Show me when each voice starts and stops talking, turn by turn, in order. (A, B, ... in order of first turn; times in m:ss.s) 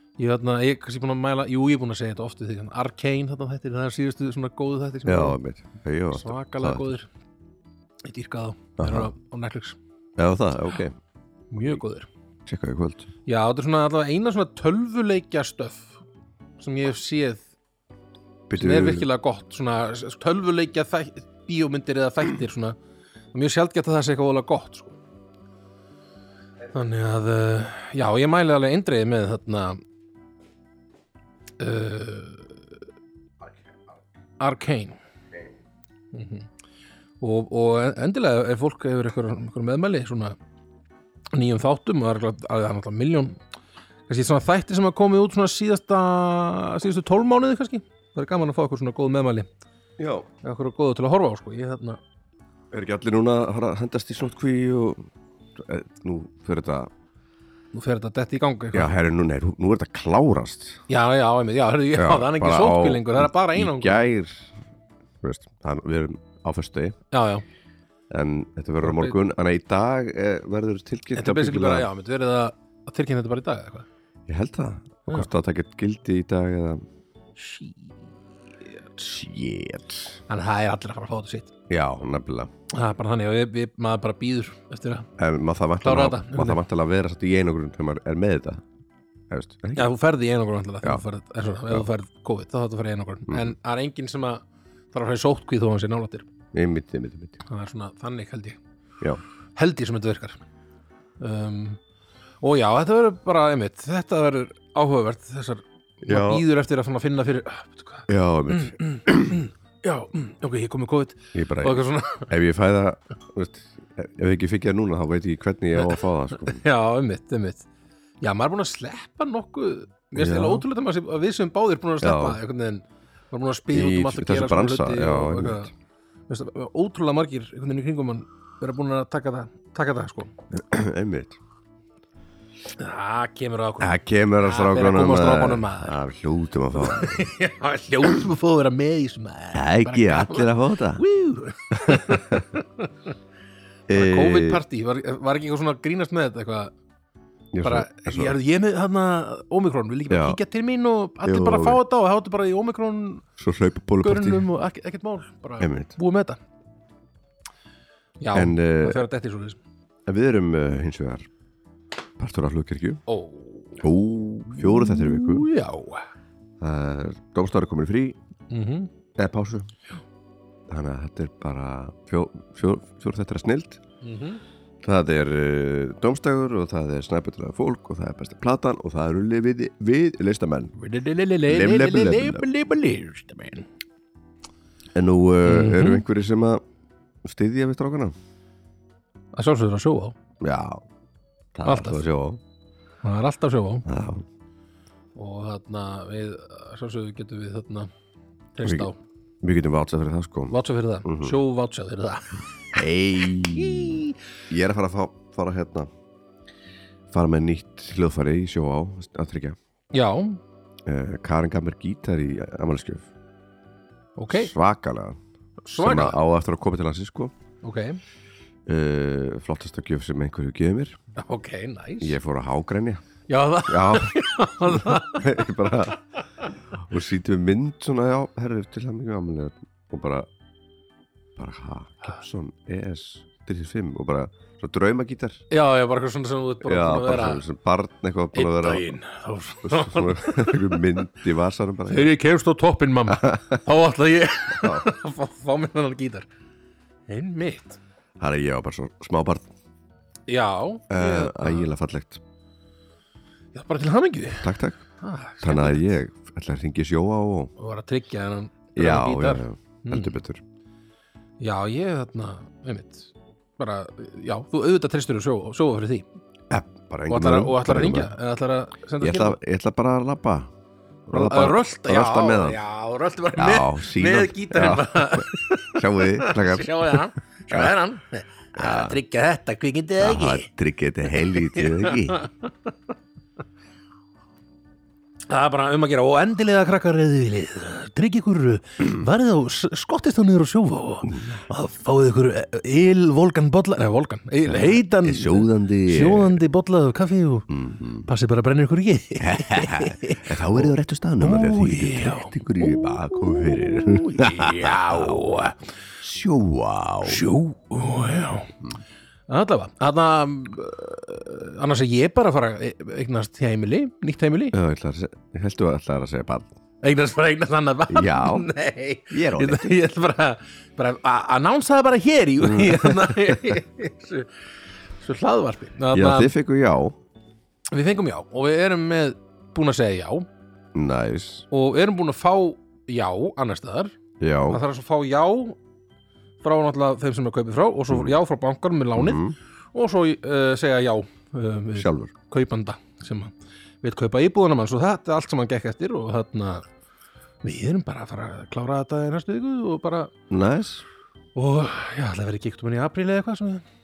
0:00.2-0:05.4 A
0:05.0-0:06.9 B
0:06.1-0:07.1 A
0:08.0-0:09.8 A
0:08.8-0:09.1 B
0:10.2-0:10.9 B
0:11.5-0:12.1 A
0:12.4-0:13.1 B
0:13.2-0:16.0 A
0:16.6-0:17.4 A
0:18.5-0:19.0 B
0:18.5-0:22.8 A
0:23.3-0:25.0 A
0:26.7-0:29.8 A
0:31.6-0:32.6 A
0:34.4-0:35.0 A
0:36.1-0:36.5 A
0:37.2-0:40.4 A
0:41.3-0:43.4 A
0:44.1-0:49.5 A
0:50.0-0:50.3 B
0:50.4-0:52.0 A
0:52.7-0:56.9 B
0:57.7-0:58.9 A
0:58.7-1:00.8 B
1:00.9-1:04.1 A
1:02.0-1:04.6 B
1:05.2-1:07.0 B
1:07.1-1:07.4 A
1:08.1-1:11.9 B
1:08.8-1:09.2 A
1:11.2-1:13.8 A
1:14.3-1:16.8 B
1:17.4-1:17.9 A
1:19.0-1:20.2 B
1:20.3-1:21.5 A
1:21.7-1:22.5 B
1:22.7-1:25.1 A
1:25.2-1:28.6 B
1:25.8-1:26.6 A
1:29.3-1:29.9 B
1:29.7-1:36.3 A
1:33.3-1:33.5 B
1:36.5-1:37.4 B
1:37.4-1:38.6 A
1:39.6-1:40.4 A
1:41.2-1:41.8 A
1:42.4-1:52.3 A
1:46.0-1:46.4 B
1:48.1-1:49.4 B
1:51.3-1:56.6 B
1:55.8-1:57.7 A
1:58.2-2:05.7 A
2:00.1-2:00.6 B
2:02.0-2:02.4 B
2:03.7-2:05.7 B
2:06.3-2:10.3 A
2:10.5-2:11.4 B
2:12.8-2:16.0 A
2:13.8-2:17.3 B
2:16.8-2:22.9 A
2:19.5-2:21.0 B
2:21.7-2:22.4 B
2:23.9-2:24.6 B
2:23.9-2:26.7 A
2:27.5-2:28.3 B
2:27.6-2:33.3 A
2:30.1-2:30.4 B
2:31.2-2:31.8 B
2:33.4-2:34.4 B
2:34.0-2:36.4 A
2:35.6-2:35.9 B
2:38.2-2:39.6 A
2:38.3-2:39.0 B
2:40.0-2:41.3 B
2:42.2-2:43.0 B
2:43.1-2:43.8 A
2:43.8-2:45.5 B
2:44.5-2:46.0 A
2:46.6-2:48.2 B
2:48.5-2:48.9 A
2:49.2-2:49.7 B
2:50.7-2:53.8 B
2:54.0-2:54.4 A
2:54.8-3:00.7 B
3:00.8-3:03.7 A
3:01.5-3:02.4 B
3:04.9-3:06.6 B
3:05.4-3:06.0 A
3:07.2-3:08.1 B
3:09.3-3:10.2 A
3:10.4-3:10.8 B
3:11.5-3:12.4 B
3:11.6-3:12.0 A
3:13.0-3:13.8 A
3:13.8-3:14.2 B
3:15.2-3:17.9 A
3:18.5-3:19.0 A
3:19.4-3:20.5 B
3:20.5-3:22.4 A
3:21.0-3:21.4 B
3:22.7-3:25.9 B
3:23.2-3:24.2 A
3:27.1-3:29.6 B
3:29.9-3:30.4 A
3:30.8-3:33.1 B
3:34.2-3:34.5 A
3:34.3-3:35.2 B
3:35.6-3:36.2 A
3:35.8-3:37.3 B
3:37.6-3:38.0 A
3:38.6-3:41.0 B
3:41.2-3:42.2 A
3:42.0-3:43.0 B
3:43.3-3:45.5 A
3:43.7-3:46.0 B
3:46.8-3:50.3 B
3:51.4-3:55.4 B
3:55.5-3:57.4 A
3:56.6-3:58.8 B
3:58.3-4:00.8 A
3:59.6-4:02.1 B
4:01.9-4:06.3 A
4:03.1-4:03.6 B
4:04.6-4:04.9 B
4:07.1-4:07.8 A
4:08.2-4:09.5 B
4:10.3-4:11.7 A
4:10.9-4:12.2 B
4:13.5-4:15.9 A
4:14.4-4:14.8 B
4:15.4-4:17.5 B
4:17.6-4:20.2 A
4:18.8-4:20.4 B
4:21.4-4:26.0 A
4:26.5-4:28.1 B
4:27.1-4:29.4 A
4:29.0-4:30.5 B
4:31.1-4:32.6 B
4:31.1-4:40.5 A
4:33.3-4:37.7 B
4:38.6-4:39.0 B
4:40.0-4:42.2 B
4:41.1-4:42.5 A
4:45.3-4:57.5 A
4:51.0-4:51.4 B
4:54.4-4:56.4 B
4:57.5-4:58.1 B
4:58.0-5:05.6 A
4:59.2-5:05.3 B
5:06.0-5:07.2 B
5:07.0-5:08.5 A
5:09.3-5:14.5 A
5:14.5-5:16.5 B
5:16.8-5:24.3 A
5:17.9-5:18.5 B
5:19.1-5:19.7 B
5:22.4-5:23.6 B
5:25.0-5:26.3 A
5:25.9-5:27.0 B
5:27.7-5:30.2 A
5:30.7-5:31.4 B
5:31.5-5:35.6 A
5:34.2-5:34.6 B
5:36.4-5:39.2 A
5:39.0-5:39.4 B
5:39.7-5:43.3 A
5:41.8-5:42.1 B
5:43.8-5:46.6 A
5:47.4-5:50.1 A
5:50.3-5:50.8 B
5:51.3-5:53.6 A